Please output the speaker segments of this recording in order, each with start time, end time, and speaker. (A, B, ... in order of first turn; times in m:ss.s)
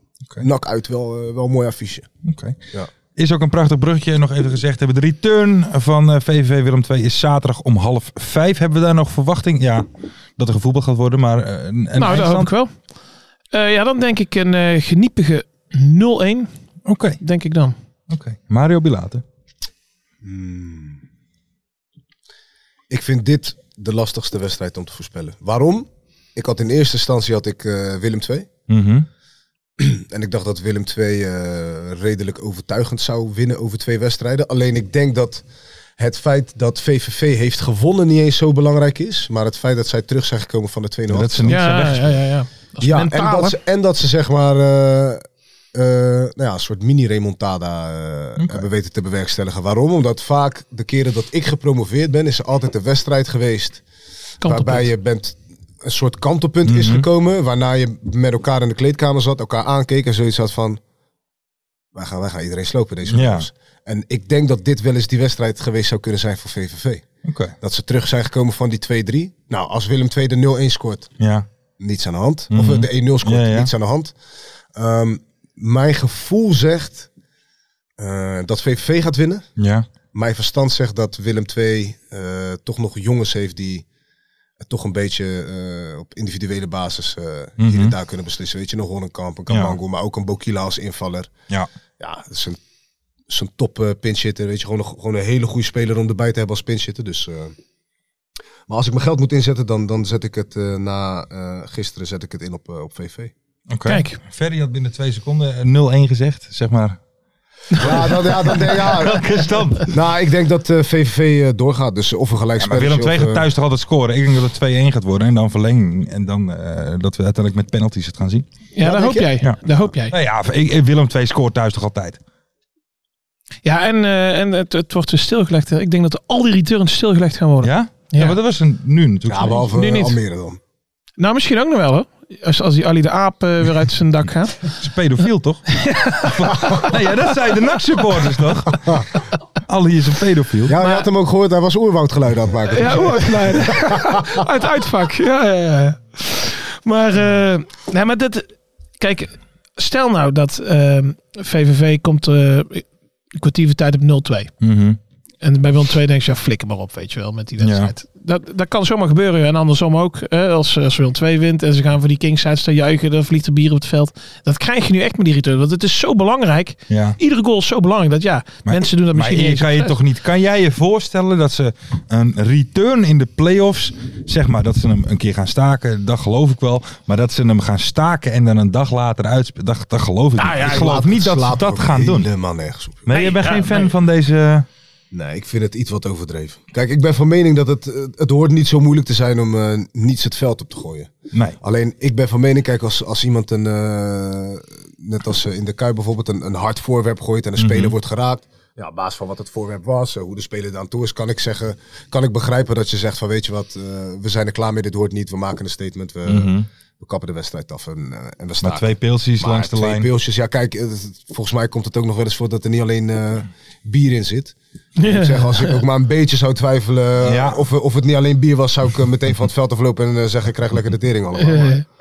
0:00.4-0:02.1 A
0:02.2-0:02.6 B
0:03.2-0:09.8 B
0:10.4-0:12.5 B
0:12.0-0:12.7 C
0:13.5-0:16.5 C
0:16.8-0:17.2 B
0:17.2-0:17.7 C
0:18.1-0:19.2 B
0:20.2-0:21.0 A
0:22.9-0:28.5 A
0:28.7-0:29.0 B
0:29.8-0:35.4 A
0:36.0-0:41.6 A
0:41.1-0:42.2 B
0:41.5-0:43.6 C
0:42.8-0:53.8 A
0:48.4-0:48.6 B
0:54.4-0:54.9 C
0:54.4-1:00.8 A
0:56.6-0:57.0 B
1:01.9-1:07.0 A
1:03.1-1:03.5 B
1:07.2-1:07.5 B
1:07.6-1:11.1 A
1:11.2-1:11.4 B
1:11.8-1:14.1 A
1:12.5-1:13.7 B
1:14.7-1:17.1 A
1:18.0-1:19.4 A
1:19.6-1:19.9 B
1:20.1-1:23.8 A
1:24.6-1:31.3 A
1:27.6-1:27.9 B
1:29.5-1:29.8 B
1:32.0-1:32.6 A
1:33.3-1:37.5 A
1:38.7-1:43.3 A
1:43.7-1:47.0 B
1:43.8-1:44.2 C
1:47.7-1:48.0 C
1:47.8-1:49.2 A
1:47.8-1:49.9 B
1:49.8-1:53.4 A
1:52.6-1:58.4 B
1:58.7-2:00.1 C
1:58.8-1:59.3 A
2:00.1-2:02.2 B
2:03.6-2:08.4 C
2:07.6-2:09.7 B
2:09.2-2:10.6 A
2:09.7-2:10.2 C
2:11.2-2:14.7 C
2:14.7-2:19.0 B
2:15.7-2:17.2 C
2:19.6-2:20.7 B
2:20.6-2:24.4 A
2:20.8-2:21.0 C
2:22.7-2:34.5 C
2:34.6-2:35.0 B
2:35.4-2:50.0 C
2:37.6-2:37.9 B
2:46.9-2:47.2 B
2:48.6-3:02.3 B
3:00.4-3:03.1 A
3:03.0-3:04.6 B
3:03.1-3:03.9 C
3:05.1-3:41.8 A
3:17.6-3:17.9 B
3:26.3-3:26.6 B
3:28.6-3:30.1 B
3:35.0-3:35.8 C
3:37.2-3:37.6 B
3:41.4-3:41.8 C